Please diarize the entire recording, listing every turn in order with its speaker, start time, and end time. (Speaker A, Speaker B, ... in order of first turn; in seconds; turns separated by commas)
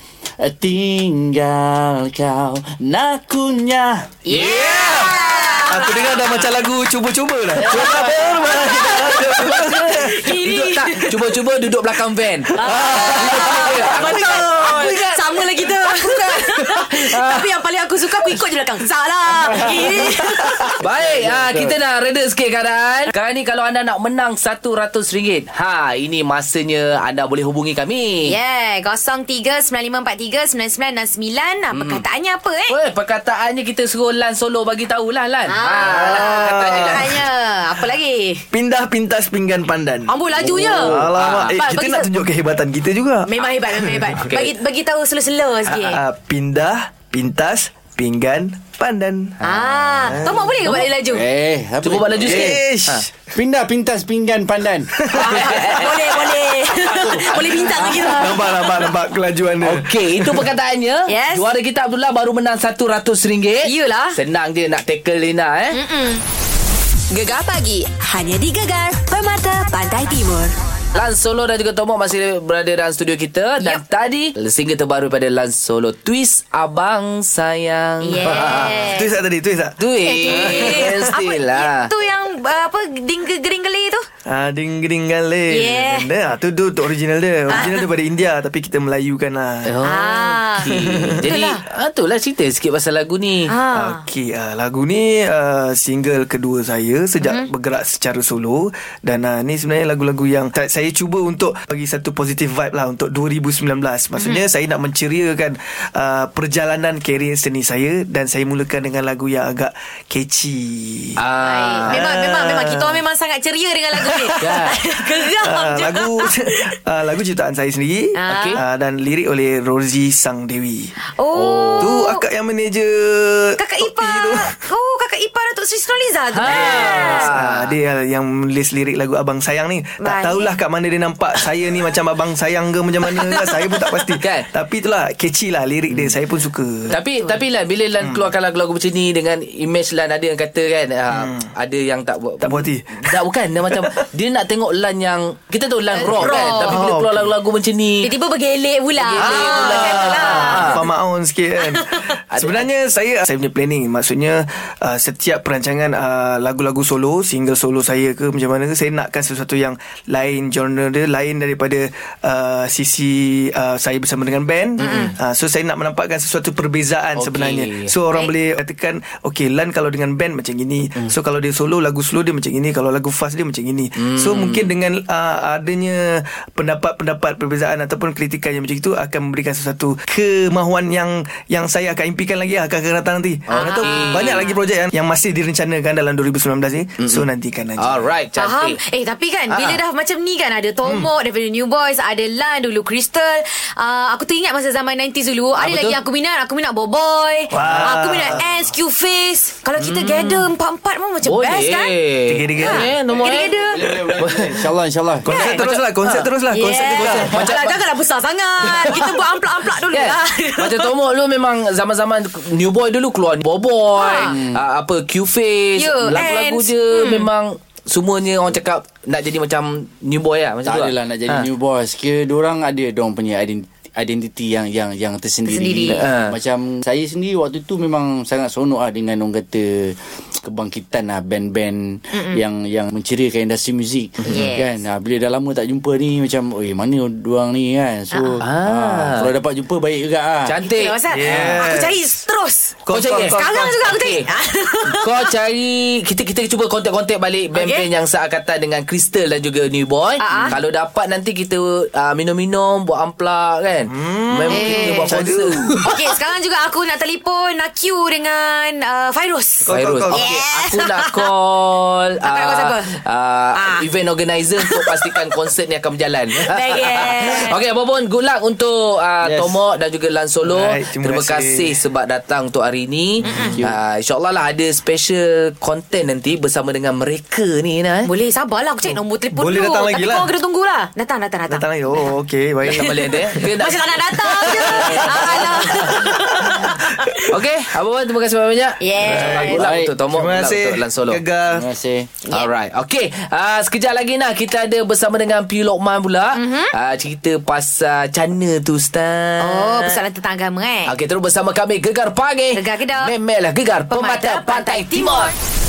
Speaker A: 0.4-4.1, Speaker B: 4.3-6.4, Speaker C: 4.3-5.0, Speaker D: 4.3-10.3, Speaker B: 7.6-11.4, Speaker A: 7.7-8.3, Speaker C: 9.4-15.0, Speaker D: 12.5-15.7, Speaker B: 12.6-20.7, Speaker A: 19.4-21.8, Speaker C: 20.8-28.4, Speaker B: 28.2-32.8, Speaker C: 31.7-32.0, Speaker C: 32.7-37.2, Speaker B: 35.5-38.5, Speaker D: 35.8-37.2, Speaker D: 38.5-44.5, Speaker B: 40.1-41.0, Speaker C: 40.4-41.6, Speaker B: 41.5-42.1, Speaker B: 43.3-46.0, Speaker D: 45.7-49.4, Speaker B: 49.4-51.2, Speaker D: 50.1-50.5, Speaker A: 50.6-52.6, Speaker C: 51.8-53.1, Speaker D: 52.2-53.1, Speaker A: 53.4-55.1, Speaker D: 55.0-56.3, Speaker B: 55.1-58.9, Speaker C: 55.1-55.9, Speaker A: 56.9-57.2, Speaker D: 57.0-60.5, Speaker C: 59.6-65.8, Speaker B: 61.1-61.5, Speaker B: 63.6-64.2, Speaker B: 65.7-66.2, Speaker E: 67.1-70.5, Speaker C: 70.9-78.9, Speaker B: 78.0-79.1, Speaker D: 78.2-81.1, Speaker C: 79.8-81.9, Speaker B: 80.0-84.1, Speaker D: 84.2-89.7, Speaker B: 85.5-86.1, Speaker B: 87.5-87.9, Speaker C: 89.6-93.5, Speaker B: 89.8-91.6, Speaker D: 90.6-91.2, Speaker B: 93.5-94.0, Speaker D: 93.7-111.2, Speaker B: 97.2-97.5, Speaker B: 104.2-104.5, Speaker C: 111.2-112.0, Speaker B: 111.4-116.6, Speaker D: 111.8-113.0, Speaker D: 113.9-114.4, Speaker C: 114.4-114.8, Speaker D: 115.0-120.9, Speaker B: 118.2-118.6, Speaker C: 118.3-118.6, Speaker B: 121.1-122.2, Speaker C: 121.3-122.0, Speaker D: 121.8-124.6, Speaker B: 123.6-127.3, Speaker C: 126.3-127.7, Speaker D: 126.4-136.9, Speaker B: 130.0-130.6, Speaker B: 133.1-133.9, Speaker C: 134.2-134.5, Speaker C: 136.9-148.1, Speaker D: 138.0-138.3, Speaker D: 141.1-141.5, Speaker D: 142.4-144.0, Speaker B: 146.0-146.8, Speaker D: 146.1-147.3, Speaker B: 148.0-150.9, Speaker C: 149.0-150.8, Speaker D: 149.2-188.1, Speaker B: 151.7-152.0, Speaker C: 152.3-152.7, Speaker C: 164.8-165.1, Speaker B: 164.8-165.1, Speaker C: 167.2-167.9, Speaker C: 173.9-174.7, Speaker C: 183.5-184.5, Speaker B: 183.5-184.6, Speaker C: 187.0-187.2, Speaker C: 187.8-188.8, Speaker B: 188.4-201.9, Speaker C: 189.5-189.8, Speaker D: 190.8-191.1, Speaker C: 195.6-196.0, Speaker D: 197.5-198.4, Speaker C: 197.6-198.0, Speaker C: 199.8-200.5, Speaker C: 201.2-203.5, Speaker D: 202.3-203.0, Speaker B: 202.6-203.8, Speaker A: 203.3-205.3, Speaker D: 203.9-204.4, Speaker C: 204.2-204.5, Speaker D: 205.2-207.5, Speaker B: 205.3-205.7, Speaker C: 205.3-206.3, Speaker B: 206.5-210.9, Speaker C: 206.8-207.8, Speaker C: 208.6-209.2, Speaker C: 209.9-221.5, Speaker B: 213.9-214.4, Speaker A: 214.2-214.6, Speaker B: 215.8-217.3, Speaker A: 220.6-240.6, Speaker B: 225.5-226.0, Speaker C: 225.9-226.4, Speaker B: 232.1-232.4, Speaker B: 234.3-234.7, Speaker B: 238.1-238.4, Speaker C: 238.4-239.3, Speaker C: 240.4-241.6, Speaker B: 240.6-245.3, Speaker D: 241.1-242.0, Speaker D: 242.9-243.9, Speaker C: 242.9-244.3, Speaker C: 244.9-255.9, Speaker B: 247.6-247.9, Speaker B: 250.2-250.6, Speaker D: 253.9-256.0, Speaker B: 254.5-255.2, Speaker B: 255.7-261.3, Speaker D: 259.6-260.3, Speaker C: 259.7-278.1, Speaker B: 262.2-262.9, Speaker B: 263.6-263.9, Speaker B: 264.6-265.3, Speaker B: 266.5-267.6, Speaker D: 270.5-271.8, Speaker B: 273.2-273.6, Speaker A: 273.4-273.8, Speaker B: 278.1-282.1, Speaker D: 278.8-280.3, Speaker D: 281.5-283.5, Speaker C: 282.6-286.1, Speaker B: 283.0-287.2, Speaker D: 284.2-287.3, Speaker C: 287.3-291.2, Speaker B: 288.8-289.6, Speaker D: 289.0-291.6, Speaker A: 289.6-289.9, Speaker A: 291.5-292.1, Speaker C: 292.3-300.0, Speaker B: 296.3-296.7, Speaker B: 299.4-300.9, Speaker C: 300.9-305.3, Speaker B: 302.5-303.1, Speaker B: 303.9-305.4